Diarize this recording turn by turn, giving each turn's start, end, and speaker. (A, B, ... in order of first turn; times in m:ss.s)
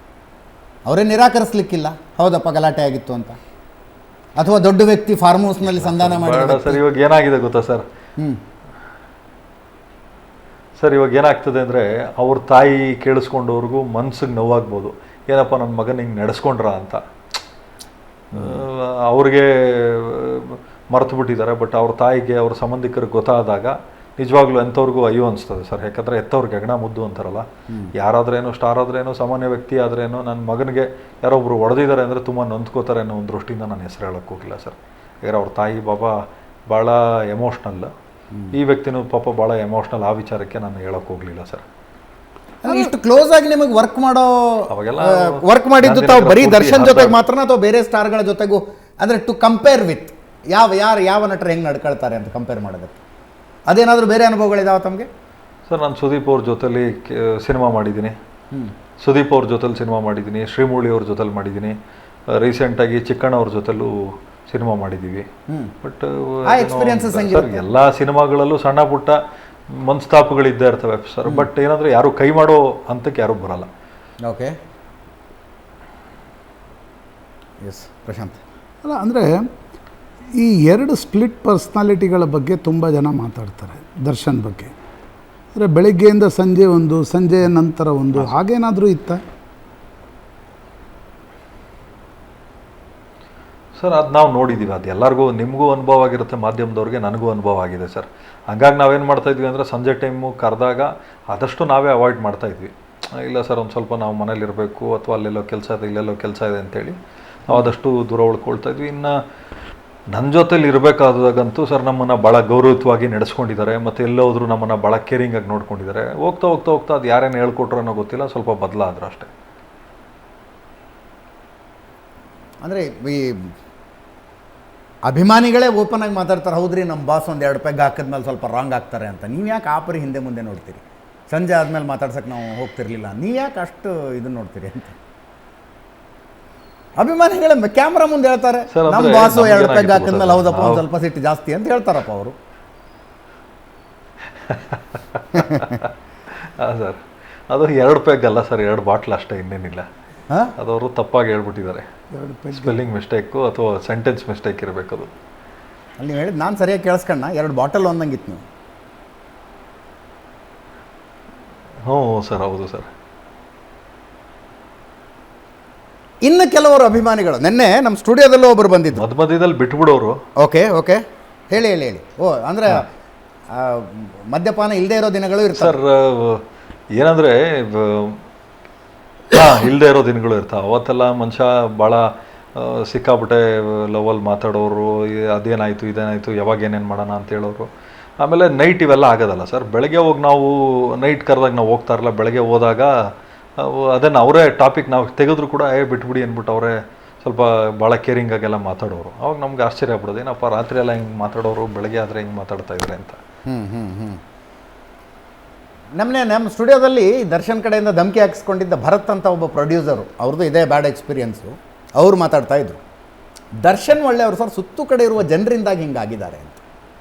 0:00.8-0:03.4 A
0:04.4-0:06.8 A
0:05.7-0:07.8 B
0:10.8-0:17.0 B
0:18.3-0:37.9 B
0:18.3-0:18.6 A
0:38.5-0:41.6 B
0:42.6-0:53.0 A
0:44.7-0:47.2 B
0:53.7-0:55.1 A
0:55.7-0:58.2 B
0:59.0-1:01.8 B
1:02.3-1:05.3 B
1:05.8-1:13.7 B
1:06.4-1:07.6 A
1:14.2-1:14.6 A
1:17.6-1:18.4 A
1:18.8-1:19.4 C
1:20.4-1:24.7 C
1:25.5-1:29.2 C
1:33.8-1:49.2 B
1:50.1-1:59.3 B
2:02.6-2:03.5 A
2:05.0-2:15.0 A
2:17.0-2:22.3 A
2:18.7-2:20.8 B
2:24.4-2:29.9 B
2:30.6-2:31.8 B
2:32.1-2:32.7 C
2:32.5-2:35.1 B
2:36.0-2:38.4 A
2:41.8-2:42.9 B
2:46.2-2:49.0 A
2:48.9-2:50.2 B
2:50.4-2:52.9 A
2:53.5-2:55.8 A
2:55.5-2:56.4 B
2:56.9-2:58.2 B
2:59.3-3:23.2 B
3:23.5-3:24.2 A
3:26.0-3:32.8 A
3:33.6-3:36.6 A